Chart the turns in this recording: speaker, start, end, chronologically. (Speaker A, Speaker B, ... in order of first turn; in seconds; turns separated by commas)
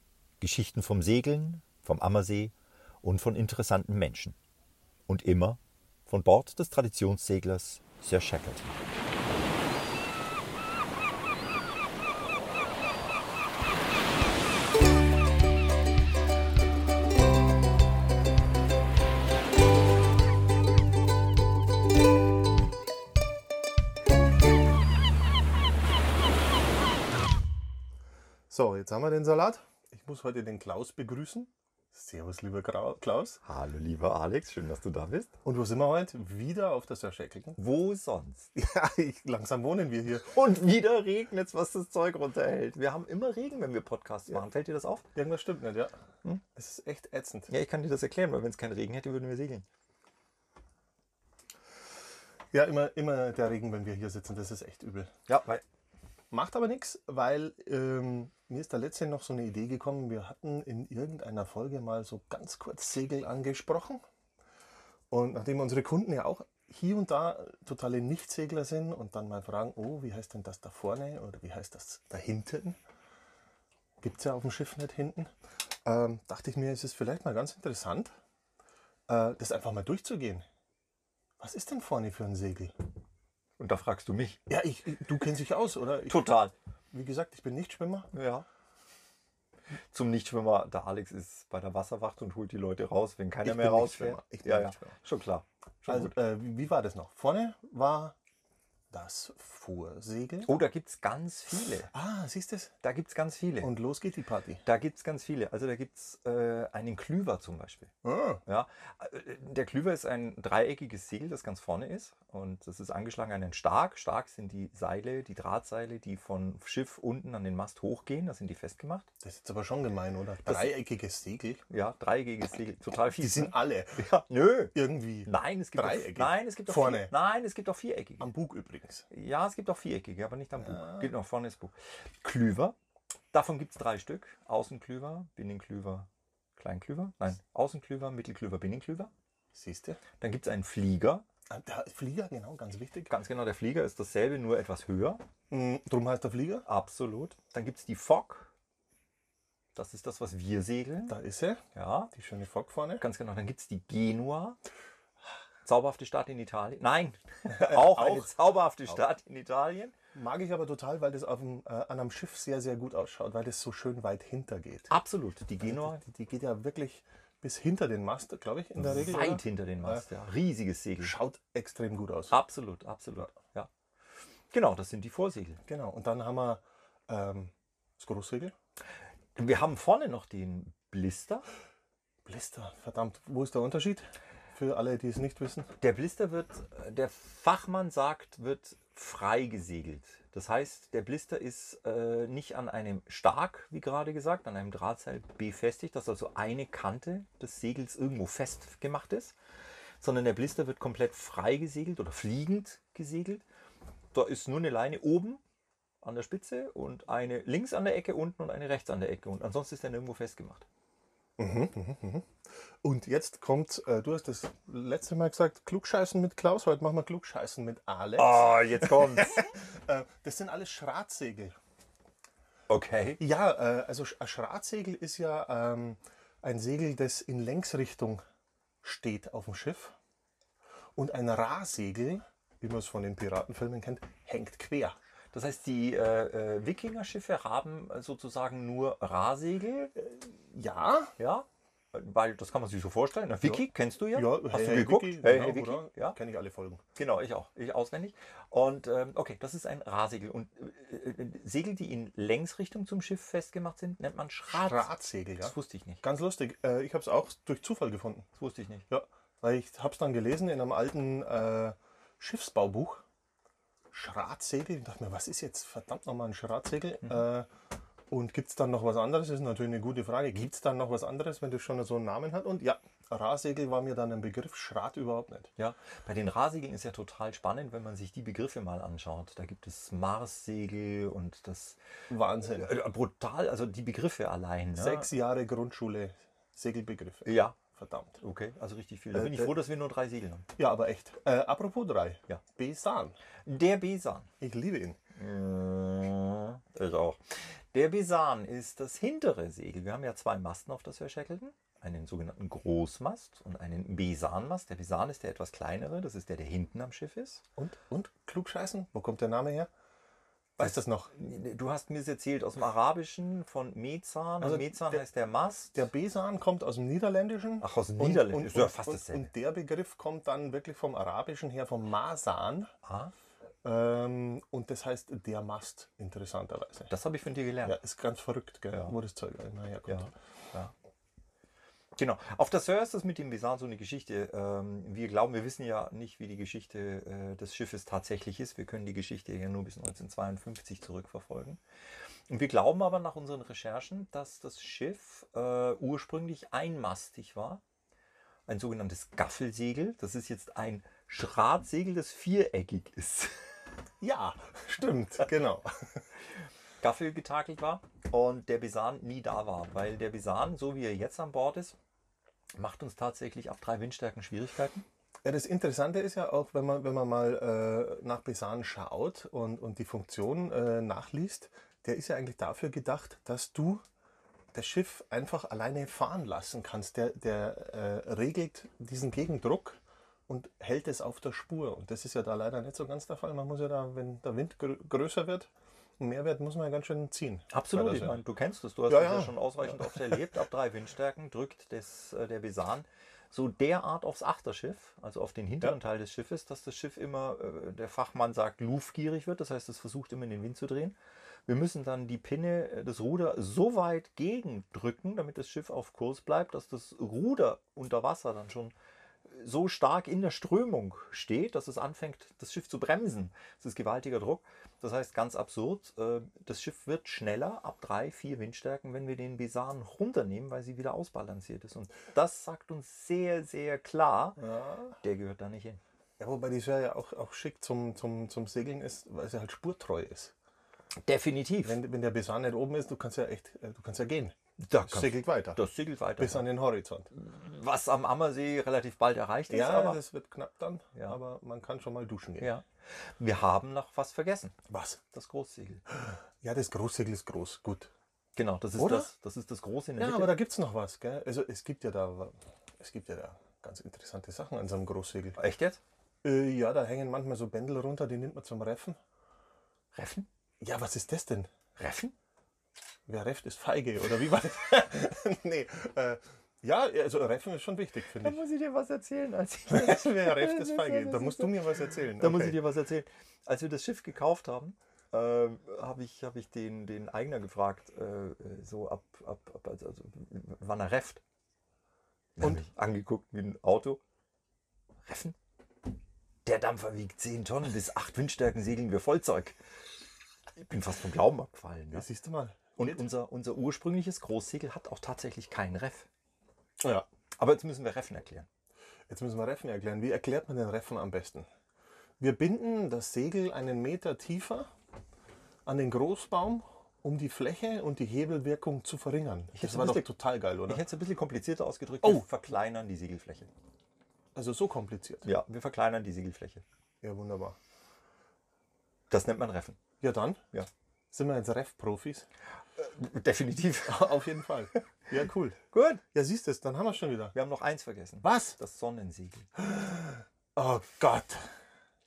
Speaker A: 0.4-4.4, Speaker A: 5.1-8.8, Speaker B: 28.5-33.4, Speaker A: 33.4-35.3, Speaker B: 35.4-37.6, Speaker A: 37.6-38.5, Speaker B: 38.5-40.4, Speaker A: 40.1-45.0, Speaker B: 45.1-47.5, Speaker A: 47.5-49.6, Speaker B: 52.5-55.1, Speaker A: 55.3-55.6, Speaker B: 56.3-64.0, Speaker B: 65.1-72.8, Speaker B: 74.0-75.3, Speaker B: 75.8-78.1, Speaker B: 79.1-80.5, Speaker B: 81.4-82.7, Speaker A: 83.6-84.4, Speaker B: 84.5-86.3, Speaker A: 86.1-86.5, Speaker B: 86.9-88.1, Speaker A: 88.1-88.4, Speaker A: 89.9-96.1, Speaker B: 93.4-95.0, Speaker B: 95.9-98.1, Speaker B: 98.9-100.5, Speaker A: 100.5-101.9, Speaker B: 101.9-102.7, Speaker A: 102.8-103.7, Speaker B: 103.6-104.6, Speaker A: 104.6-107.9, Speaker B: 108.0-108.4, Speaker A: 108.5-119.1, Speaker B: 119.2-121.6, Speaker A: 120.4-120.7, Speaker A: 121.7-124.7, Speaker B: 123.2-124.0, Speaker B: 124.7-127.1, Speaker A: 125.2-128.3, Speaker B: 128.2-129.1, Speaker A: 129.1-132.8, Speaker B: 130.6-131.1, Speaker A: 133.3-139.1, Speaker B: 139.5-140.0, Speaker A: 140.2-141.2, Speaker B: 141.5-143.1, Speaker A: 143.1-145.2, Speaker B: 145.5-146.7, Speaker A: 146.7-148.5, Speaker A: 149.8-151.2, Speaker B: 151.1-153.0, Speaker A: 151.8-152.1, Speaker A: 153.0-154.6, Speaker A: 155.7-159.9, Speaker B: 157.5-159.1, Speaker B: 160.1-164.9, Speaker A: 164.9-166.0, Speaker B: 165.6-170.1, Speaker A: 168.8-171.2, Speaker B: 171.0-172.3, Speaker A: 172.3-173.7, Speaker A: 174.5-175.6, Speaker B: 175.7-178.5, Speaker A: 179.3-181.4, Speaker B: 182.2-185.7, Speaker A: 185.8-199.3, Speaker A: 200.0-203.4, Speaker A: 204.1-205.4, Speaker A: 206.0-210.7, Speaker B: 211.4-212.3, Speaker B: 212.8-221.6, Speaker A: 218.2-219.4, Speaker A: 222.7-223.2, Speaker B: 223.2-228.2, Speaker B: 228.8-229.9, Speaker B: 230.9-234.9, Speaker A: 235.3-239.9, Speaker B: 239.9-241.1, Speaker A: 241.2-246.2, Speaker B: 243.4-246.8, Speaker A: 246.9-256.0, Speaker B: 254.5-258.3, Speaker A: 258.4-258.9, Speaker B: 258.9-263.0, Speaker B: 263.9-267.5, Speaker B: 268.1-275.5, Speaker A: 275.6-281.8, Speaker B: 282.1-282.8, Speaker A: 282.5-285.1, Speaker B: 284.8-288.2, Speaker A: 287.2-287.6, Speaker A: 288.2-290.5, Speaker B: 289.1-289.5, Speaker B: 290.6-293.2, Speaker A: 293.5-294.3, Speaker B: 294.4-295.0, Speaker A: 295.1-297.2, Speaker A: 297.7-307.4, Speaker B: 307.6-309.7, Speaker B: 310.6-311.1, Speaker A: 310.6-315.9, Speaker B: 314.4-315.0, Speaker B: 315.7-322.7, Speaker A: 317.6-319.3, Speaker A: 322.8-323.1, Speaker B: 323.6-326.9, Speaker A: 326.9-327.8, Speaker B: 327.6-330.1, Speaker A: 329.9-330.7, Speaker A: 332.0-341.6, Speaker A: 342.3-347.6, Speaker A: 348.5-353.3, Speaker B: 354.0-355.7, Speaker A: 356.8-361.8, Speaker A: 362.6-364.9, Speaker B: 365.2-373.8, Speaker B: 374.5-388.2, Speaker A: 387.5-401.0, Speaker B: 388.9-390.4, Speaker A: 401.5-408.7, Speaker A: 409.3-424.4, Speaker B: 424.4-425.0, Speaker A: 425.0-425.8, Speaker B: 426.2-430.3, Speaker A: 431.0-431.8, Speaker B: 431.6-435.6, Speaker A: 434.6-436.5, Speaker B: 436.2-437.1, Speaker A: 437.1-440.0, Speaker B: 439.5-442.5, Speaker A: 442.4-444.6, Speaker B: 444.7-445.0, Speaker A: 445.1-445.8, Speaker B: 445.9-447.9, Speaker A: 448.4-450.4, Speaker B: 448.8-449.1, Speaker B: 450.0-455.4, Speaker A: 455.4-455.8, Speaker B: 456.2-459.0, Speaker A: 459.9-460.3, Speaker B: 460.6-461.5, Speaker A: 461.8-462.1, Speaker B: 463.1-468.4, Speaker A: 468.2-481.2, Speaker B: 469.7-472.6, Speaker A: 482.4-484.0, Speaker A: 485.1-485.4, Speaker A: 486.4-489.6, Speaker A: 490.6-492.1, Speaker B: 491.9-493.1, Speaker A: 492.8-496.1, Speaker B: 496.8-497.1, Speaker A: 497.4-498.5, Speaker B: 499.1-501.5, Speaker B: 502.2-504.7, Speaker B: 505.6-510.8, Speaker A: 509.6-510.1, Speaker A: 510.7-513.5, Speaker B: 514.3-515.3, Speaker A: 515.2-516.6, Speaker B: 517.0-517.6, Speaker A: 519.1-519.8, Speaker B: 520.0-520.4, Speaker B: 521.1-522.3, Speaker A: 522.8-524.4, Speaker B: 523.8-525.6, Speaker A: 525.7-526.0, Speaker B: 526.1-527.3, Speaker A: 527.3-529.5, Speaker B: 528.2-528.6, Speaker B: 529.6-531.5